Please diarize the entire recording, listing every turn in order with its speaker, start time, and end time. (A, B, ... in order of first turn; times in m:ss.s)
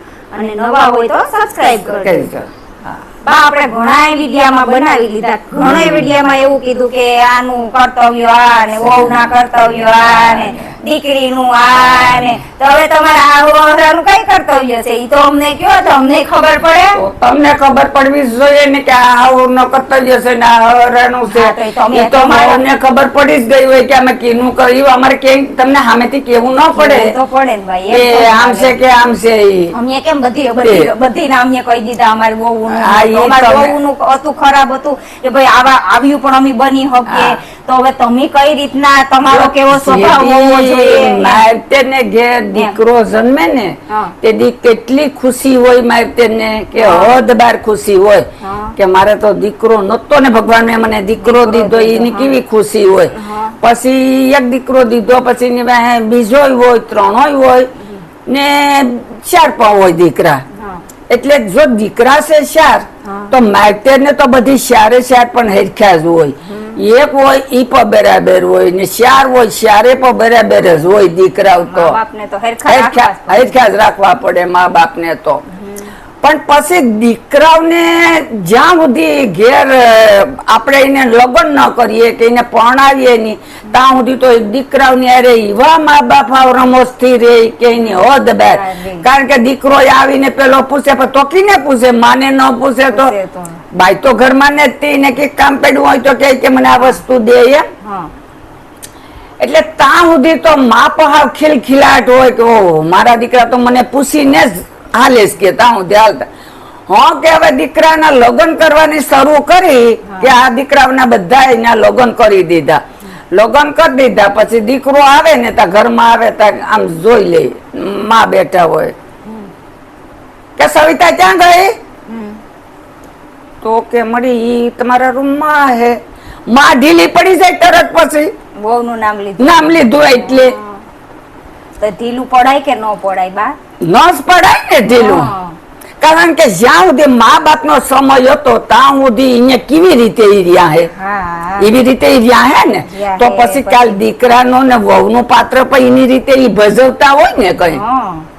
0:00.3-0:02.3 A
0:02.0-0:02.5 B
0:03.2-0:17.0 A
0:05.6-0:06.1 B
0:08.8-0:09.3 B
0:10.0-0:10.6 B
0:11.7-0:12.3 B
0:17.0-0:27.1 B
0:21.3-0:22.6 A
0:26.7-0:28.8 A
0:27.9-0:29.7 B
0:29.7-0:41.4 A
0:30.6-0:30.9 B
0:32.7-0:33.8 B
0:37.0-0:37.3 B
0:39.3-0:48.3 B
0:43.9-0:44.2 A
0:46.8-0:47.2 A
0:48.4-0:48.8 A
0:48.8-0:57.7 B
0:51.2-0:52.3 A
0:53.1-0:53.6 A
0:58.2-1:00.4 B
1:00.6-1:00.8 A
1:01.1-1:12.0 B
1:03.0-1:03.3 A
1:06.4-1:06.8 A
1:11.7-1:13.6 A
1:12.7-1:15.4 B
1:15.5-1:15.9 A
1:16.2-1:33.1 B
1:27.8-1:29.1 A
1:32.9-1:33.6 A
1:33.7-1:37.7 B
1:37.8-1:38.1 A
1:39.4-1:46.3 B
1:46.9-1:52.8 B
1:50.1-1:50.3 A
1:53.3-1:58.9 B
2:00.6-2:01.8 B
2:02.1-2:02.4 A
2:03.6-2:08.3 B
2:08.6-2:10.8 A
2:09.4-2:10.6 B
2:11.8-2:13.6 A
2:13.8-2:15.3 B
2:14.9-2:15.6 A
2:16.0-2:20.9 B
2:20.9-2:21.7 A
2:21.6-2:27.8 B
2:22.9-2:24.0 A
2:27.7-2:28.3 A